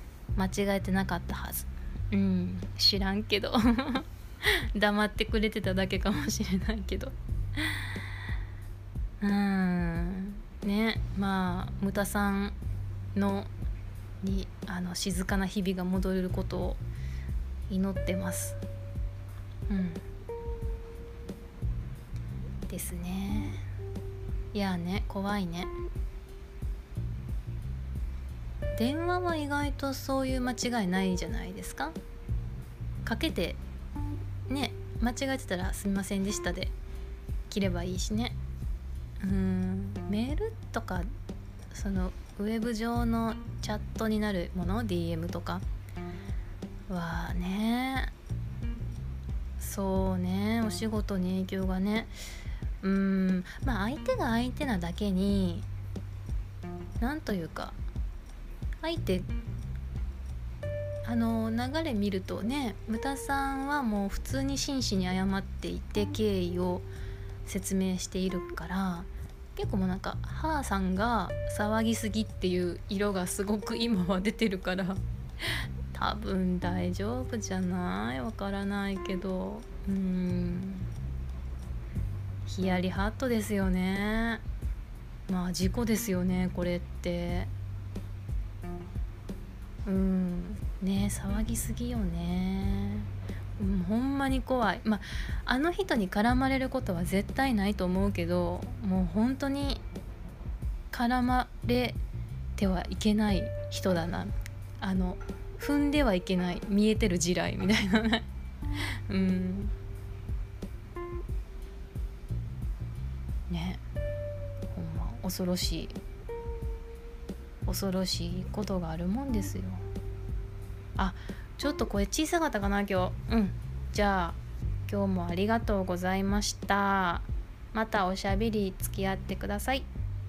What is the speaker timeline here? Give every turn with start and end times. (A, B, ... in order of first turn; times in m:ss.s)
0:00.4-0:07.9 A
0:09.2-0:12.6 A
0:13.1-0:13.5 A
0:14.2-0:16.8 A
0:17.7-0:18.6 A
0:19.7-0:20.0 A
0:22.7-0:23.6 A
0:24.5-0:25.7 A
0:28.7-0:31.9 A
0:33.0-0:33.6 A
0:34.5-0:36.7 A
0:37.5-0:38.4 A
0:39.2-0:41.1 A
0:41.7-0:45.6 A
0:46.9-0:48.1 A
0:49.6-0:52.1 A
0:52.8-0:55.7 A
0:57.0-0:57.8 A
0:58.8-0:59.3 A
1:01.0-1:06.9 A
1:07.4-1:15.0 A
1:15.9-1:20.9 A
1:22.5-1:24.4 A
1:25.3-1:27.5 A
1:29.8-1:39.8 A
1:40.9-1:42.0 A
1:42.6-1:48.2 A
1:49.1-1:49.7 A
1:53.5-1:53.8 A
1:54.7-1:56.0 A
1:57.6-1:59.8 A
2:01.0-2:09.9 A